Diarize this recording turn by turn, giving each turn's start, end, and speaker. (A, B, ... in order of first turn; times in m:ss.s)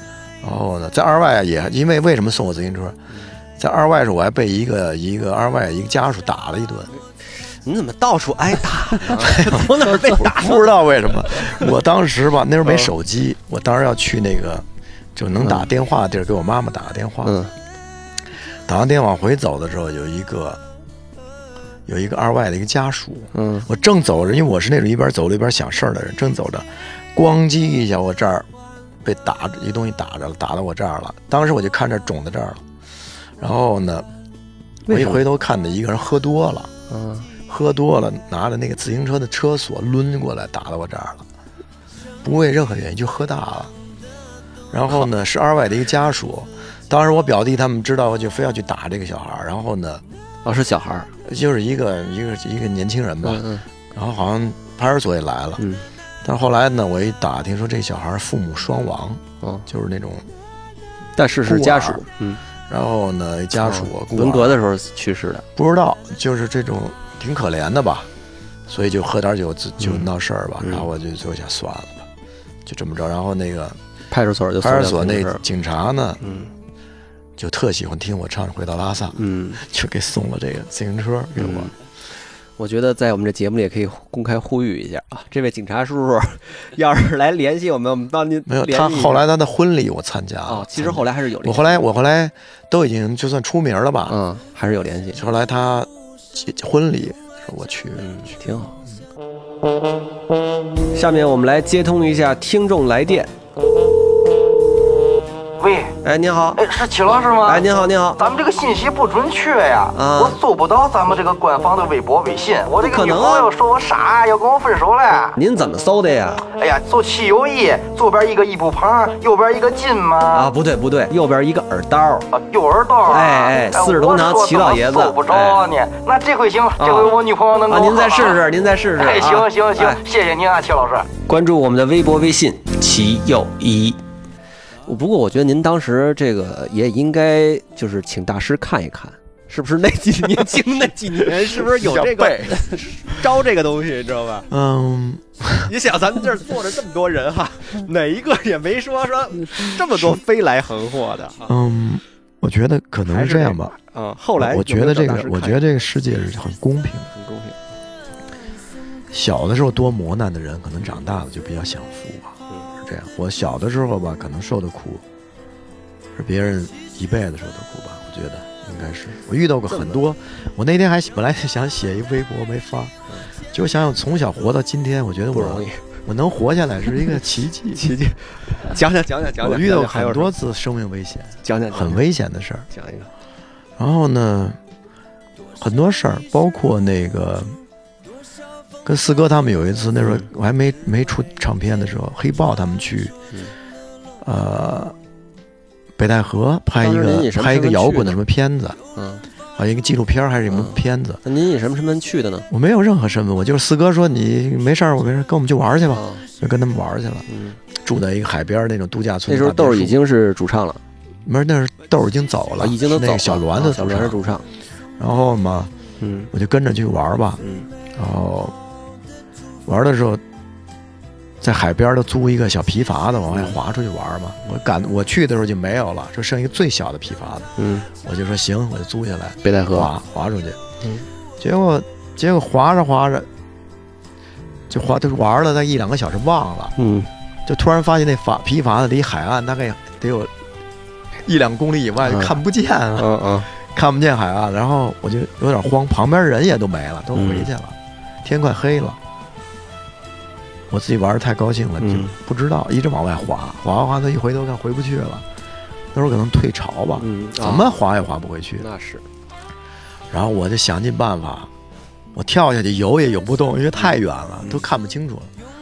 0:00.4-0:03.0 A
0:03.6-0:06.9 A
0:07.4-0:11.7 B
0:09.0-0:17.4 A
0:12.6-0:12.9 B
0:15.4-0:15.7 B
0:17.2-0:17.5 B
0:18.6-0:20.6 A
0:21.8-0:28.5 A
0:23.3-0:23.7 B
0:29.0-0:32.6 A
0:33.4-0:34.1 A
0:34.8-0:35.2 B
0:34.9-0:36.7 A
0:36.9-0:37.3 B
0:37.5-0:41.3 A
0:42.2-0:43.7 A
0:44.7-0:50.0 A
0:50.4-0:51.1 B
0:51.2-0:55.6 A
0:53.2-0:53.6 B
0:55.6-0:55.8 B
0:56.2-1:00.3 A
1:01.2-1:02.4 B
1:01.4-1:02.0 A
1:02.7-1:04.6 A
1:03.6-1:05.4 B
1:05.6-1:08.1 A
1:08.7-1:12.1 A
1:09.8-1:10.0 B
1:10.6-1:10.9 B
1:12.6-1:13.8 A
1:14.1-1:15.4 B
1:14.6-1:16.2 A
1:16.2-1:16.5 B
1:17.4-1:21.7 A
1:19.1-1:19.6 B
1:21.4-1:21.7 B
1:22.6-1:29.2 B
1:28.5-1:34.2 A
1:30.4-1:31.8 B
1:34.1-1:35.2 B
1:35.1-1:38.1 A
1:38.0-1:38.8 B
1:40.9-1:43.3 B
1:45.6-1:45.9 C
1:46.0-1:46.6 B
1:46.5-1:55.4 C
1:47.4-1:48.2 B
1:49.9-1:50.4 B
1:52.7-1:53.5 B
1:55.4-1:56.4 B
1:56.5-2:00.5 C
2:00.3-2:02.3 B
2:02.3-2:11.1 C
2:03.1-2:05.6 B
2:06.8-2:07.1 B
2:07.7-2:10.0 B
2:11.3-2:14.0 B
2:14.8-2:24.5 B
2:21.4-2:22.9 A
2:24.5-2:25.7 A
2:25.6-2:31.5 B
2:29.7-2:30.2 A
2:31.4-2:33.7 A
2:33.1-2:35.6 B
2:34.4-2:37.1 A
2:37.1-2:37.6 B
2:39.1-2:45.0 A
2:46.1-2:52.9 A
2:49.7-2:50.0 B
2:53.5-2:57.9 A
2:55.3-2:55.8 B
2:57.8-3:00.3 B
2:59.4-3:02.7 A
3:01.4-3:02.0 B
3:02.7-3:03.1 B
3:03.8-3:04.6 A
3:05.6-3:07.6 A
3:08.8-3:13.1 A
3:10.0-3:10.3 B
3:14.2-3:14.9 A
3:16.0-3:18.8 A
3:16.8-3:18.2 B
3:18.9-3:19.2 B
3:19.6-3:21.2 A
3:20.5-3:22.5 B
3:22.5-3:27.2 A
3:25.9-3:26.2 B
3:27.3-3:27.6 B
3:27.8-3:30.0 A
3:29.3-3:30.8 B
3:31.2-3:34.2 A
3:32.6-3:34.4 B
3:35.0-3:35.7 A
3:36.0-3:36.3 B
3:36.3-3:37.4 A
3:37.4-3:37.7 B
3:37.9-3:38.5 A
3:39.6-3:40.2 A
3:41.4-3:50.6 A
3:43.3-3:43.6 B
3:47.6-3:47.9 B
3:49.4-3:49.9 B
3:50.8-3:51.0 B
3:51.4-3:53.3 A
3:54.7-3:56.7 A
3:56.8-3:57.1 B
3:57.4-4:00.3 A
4:01.2-4:09.0 A
4:02.0-4:02.3 B
4:03.0-4:03.5 B
4:07.1-4:07.5 B
4:10.7-4:15.2 A
4:11.8-4:12.1 B
4:15.9-4:18.6 A
4:17.0-4:17.8 B
4:18.6-4:19.0 B
4:20.1-4:21.5 A
4:22.1-4:25.3 A
4:23.8-4:24.6 B